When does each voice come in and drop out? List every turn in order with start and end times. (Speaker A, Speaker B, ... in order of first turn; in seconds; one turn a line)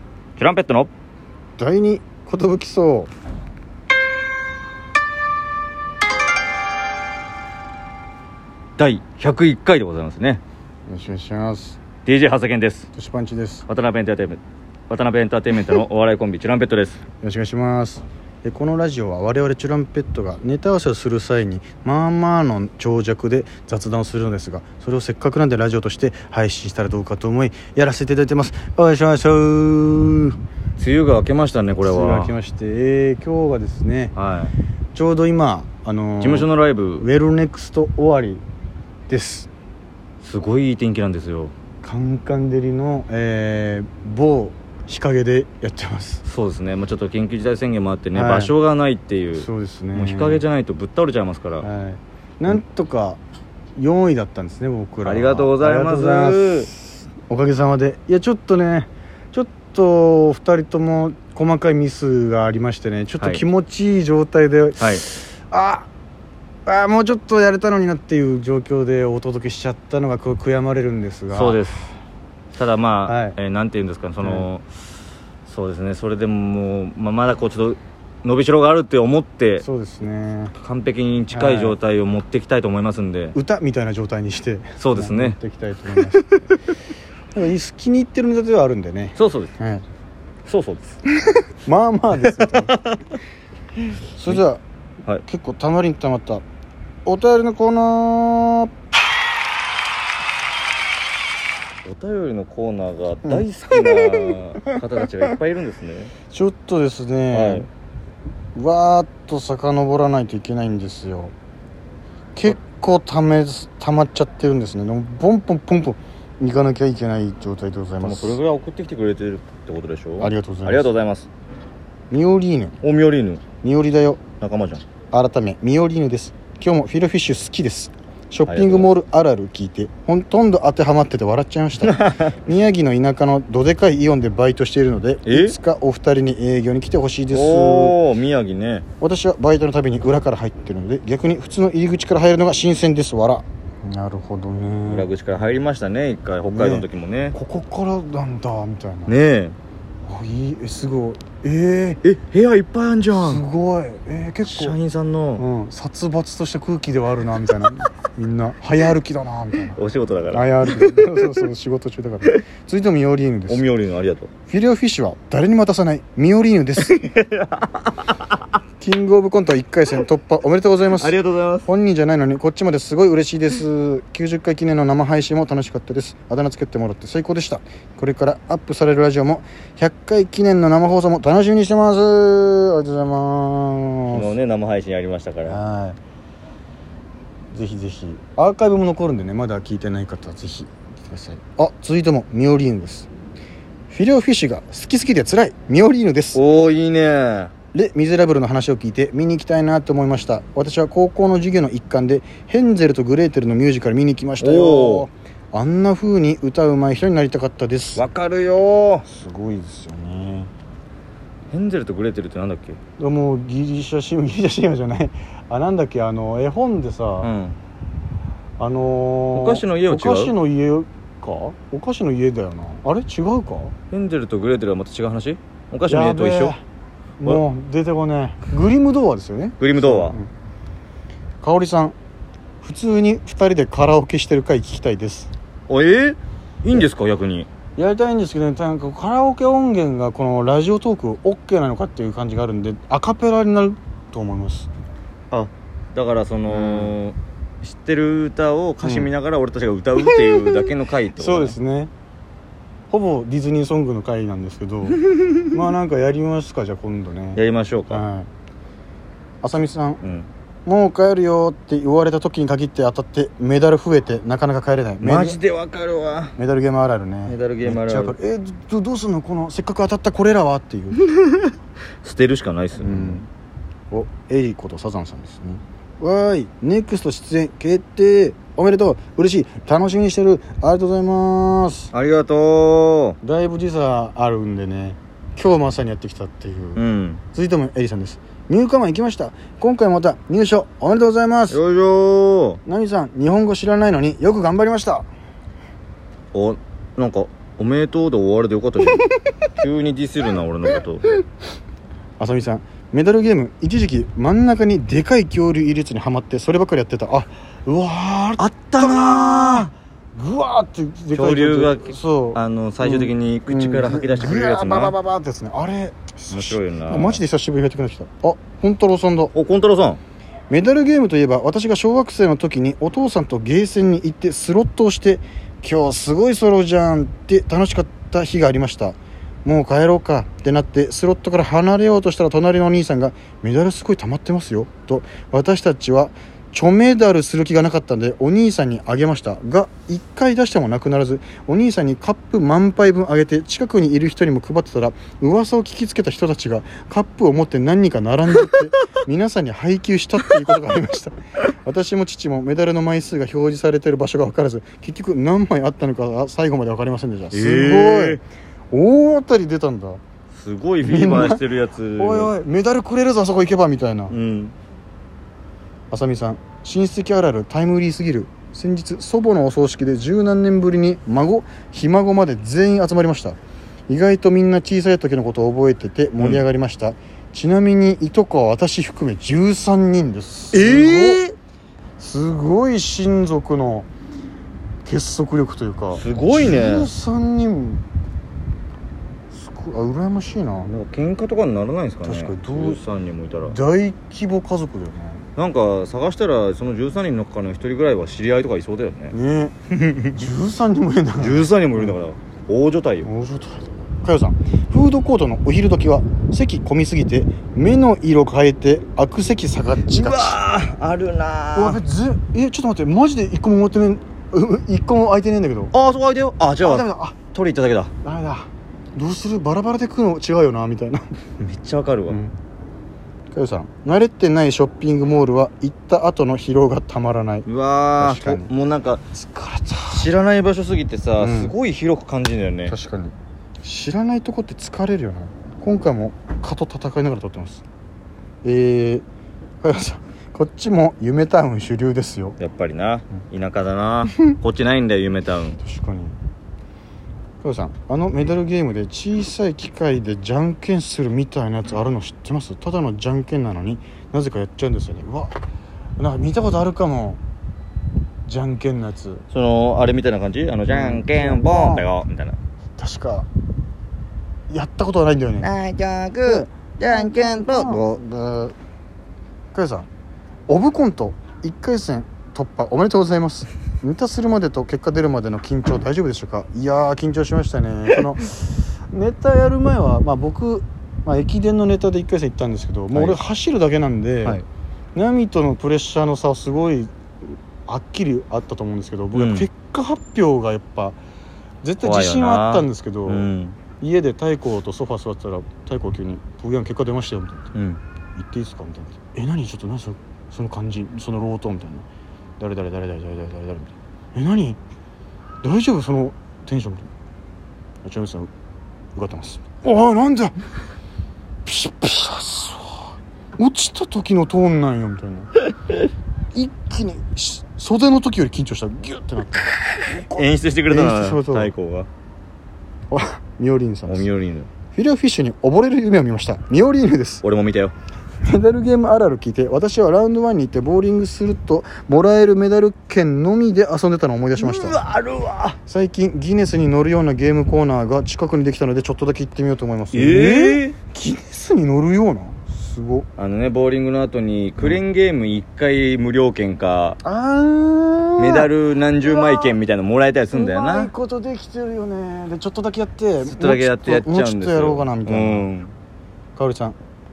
Speaker A: 0.4-0.9
Speaker B: 1.6-3.1
Speaker A: 8.8-10.4
Speaker B: 10.9-11.8
Speaker A: 12.0-12.9
Speaker B: 12.9-13.7
Speaker A: 13.7-17.0
Speaker B: 17.2-30.4
Speaker A: 30.8-32.3
Speaker B: 31.8-34.1
Speaker A: 34.1-34.5
Speaker B: 34.9-38.4
Speaker A: 36.2-37.0
Speaker B: 39.1-39.5
Speaker A: 40.2-41.5
Speaker B: 41.8-46.2
Speaker A: 46.2-51.7
Speaker B: 48.1-48.5
Speaker B: 49.3-50.5
Speaker B: 51.6-53.2
Speaker B: 53.8-65.9
Speaker A: 55.0-56.7
Speaker A: 64.8-65.0
Speaker B: 66.7-71.7
Speaker A: 71.3-71.9
Speaker A: 72.5-74.7
Speaker B: 73.0-73.3
Speaker B: 74.2-74.5
Speaker A: 75.5-79.6
Speaker B: 79.6-80.5
Speaker A: 80.5-83.3
Speaker B: 81.3-81.8
Speaker B: 83.3-86.3
Speaker A: 84.8-85.4
Speaker A: 86.1-86.4
Speaker B: 87.3-89.8
Speaker A: 89.2-89.5
Speaker A: 90.5-91.0
Speaker B: 91.2-92.7
Speaker A: 92.3-93.0
Speaker B: 94.2-94.6
Speaker B: 95.2-96.4
Speaker B: 97.0-98.7
Speaker A: 101.8-106.1
Speaker B: 103.2-105.3
Speaker B: 106.3-107.7
Speaker A: 107.3-107.7
Speaker B: 108.5-111.3
Speaker B: 112.3-118.4
Speaker A: 118.0-121.3
Speaker B: 120.2-120.9
Speaker B: 122.1-122.8
Speaker A: 122.8-123.4
Speaker B: 123.6-124.2
Speaker A: 124.4-124.8
Speaker B: 125.1-138.0
Speaker A: 128.5-128.9
Speaker A: 131.8-132.3
Speaker A: 135.2-135.6
Speaker A: 137.3-138.8
Speaker B: 139.0-145.1
Speaker A: 144.9-147.3
Speaker B: 146.5-149.2
Speaker A: 149.1-149.6
Speaker B: 150.1-152.0
Speaker A: 152.0-153.4
Speaker B: 153.2-154.8
Speaker A: 154.4-155.4
Speaker B: 155.4-159.8
Speaker A: 159.8-161.4
Speaker B: 160.3-163.7
Speaker A: 163.5-164.3
Speaker B: 164.5-167.0
Speaker A: 166.8-167.9
Speaker B: 168.8-184.3
Speaker A: 170.9-171.7
Speaker A: 184.1-185.6
Speaker B: 185.4-186.0
Speaker B: 187.5-193.1
Speaker B: 193.9-196.4
Speaker A: 196.3-197.5
Speaker B: 197.7-208.1
Speaker A: 204.4-205.1
Speaker A: 207.9-209.1
Speaker B: 209.1-210.5
Speaker A: 211.5-212.8
Speaker B: 213.0-217.3
Speaker A: 217.2-217.6
Speaker B: 218.6-223.7
Speaker A: 219.3-220.3
Speaker A: 223.9-226.5
Speaker B: 225.9-226.6
Speaker B: 227.2-230.3
Speaker A: 229.6-230.2
Speaker B: 231.4-231.9
Speaker B: 232.6-235.3
Speaker A: 235.7-237.5
Speaker B: 237.8-244.7
Speaker A: 245.3-251.5
Speaker B: 246.5-247.0
Speaker B: 248.8-249.1
Speaker B: 250.0-251.9
Speaker B: 252.9-258.3
Speaker A: 257.3-258.0
Speaker B: 259.4-260.0
Speaker A: 260.0-260.3
Speaker B: 260.6-265.4
Speaker A: 265.0-266.3
Speaker B: 266.4-271.0
Speaker A: 267.3-268.1
Speaker A: 271.1-271.5
Speaker A: 272.0-273.2
Speaker B: 272.8-273.2
Speaker B: 273.9-281.9
Speaker A: 281.9-283.2
Speaker B: 283.2-286.8
Speaker A: 286.8-287.2
Speaker B: 287.3-291.6
Speaker A: 291.5-292.6
Speaker B: 292.6-295.1
Speaker A: 296.3-301.1
Speaker B: 302.2-319.3
Speaker A: 308.4-309.7
Speaker A: 311.1-314.9
Speaker A: 316.3-317.2
Speaker A: 319.3-320.0
Speaker B: 320.5-360.0
Speaker A: 357.3-358.2
Speaker A: 360.3-362.3
Speaker B: 360.8-361.4
Speaker B: 362.0-364.1
Speaker A: 364.1-364.5
Speaker B: 365.9-373.4
Speaker B: 373.9-381.2
Speaker A: 376.2-376.4
Speaker A: 380.5-381.3
Speaker B: 382.0-383.9
Speaker B: 384.8-387.8
Speaker A: 385.9-386.9
Speaker B: 389.3-390.7
Speaker A: 390.6-393.6
Speaker B: 392.0-392.8
Speaker B: 393.4-395.2
Speaker A: 395.4-399.1
Speaker B: 399.1-399.5
Speaker A: 399.8-400.2
Speaker B: 400.1-401.9
Speaker A: 401.2-403.1
Speaker B: 403.0-410.4
Speaker A: 409.8-411.8
Speaker B: 411.5-415.7
Speaker A: 415.7-417.9
Speaker B: 416.6-417.1
Speaker B: 418.0-421.1
Speaker A: 421.4-422.2
Speaker B: 422.1-422.3
Speaker B: 423.3-427.5
Speaker A: 427.4-429.0
Speaker B: 428.0-428.5
Speaker B: 429.1-430.1
Speaker A: 429.9-432.8
Speaker B: 431.2-431.5
Speaker B: 432.6-437.6
Speaker B: 438.4-439.0
Speaker B: 439.6-442.4
Speaker A: 442.4-445.6
Speaker B: 445.6-446.2
Speaker B: 447.4-455.4
Speaker B: 456.0-457.2
Speaker B: 458.3-459.2
Speaker A: 459.3-462.4
Speaker B: 460.7-461.9
Speaker B: 462.8-463.3
Speaker B: 464.5-465.5
Speaker A: 465.4-467.9
Speaker B: 466.2-468.5
Speaker B: 469.5-469.9
Speaker B: 470.5-484.4
Speaker A: 482.9-483.2
Speaker B: 484.9-491.0
Speaker A: 489.1-489.5
Speaker B: 491.6-497.5
Speaker A: 491.8-493.6
Speaker A: 497.5-497.8
Speaker B: 498.1-501.9
Speaker B: 502.4-504.6
Speaker B: 505.4-506.9
Speaker B: 507.8-508.3
Speaker B: 508.9-510.4
Speaker B: 511.4-515.3
Speaker B: 516.3-521.5
Speaker A: 519.8-521.9
Speaker B: 522.9-524.1
Speaker A: 523.9-524.5
Speaker B: 524.7-527.2
Speaker A: 527.2-527.7
Speaker B: 528.2-534.8
Speaker A: 534.4-535.6
Speaker B: 535.7-543.1
Speaker A: 539.9-540.8
Speaker A: 543.2-547.0
Speaker B: 547.0-549.6
Speaker A: 548.2-550.9
Speaker B: 550.3-555.5
Speaker A: 553.2-555.7
Speaker B: 556.4-556.8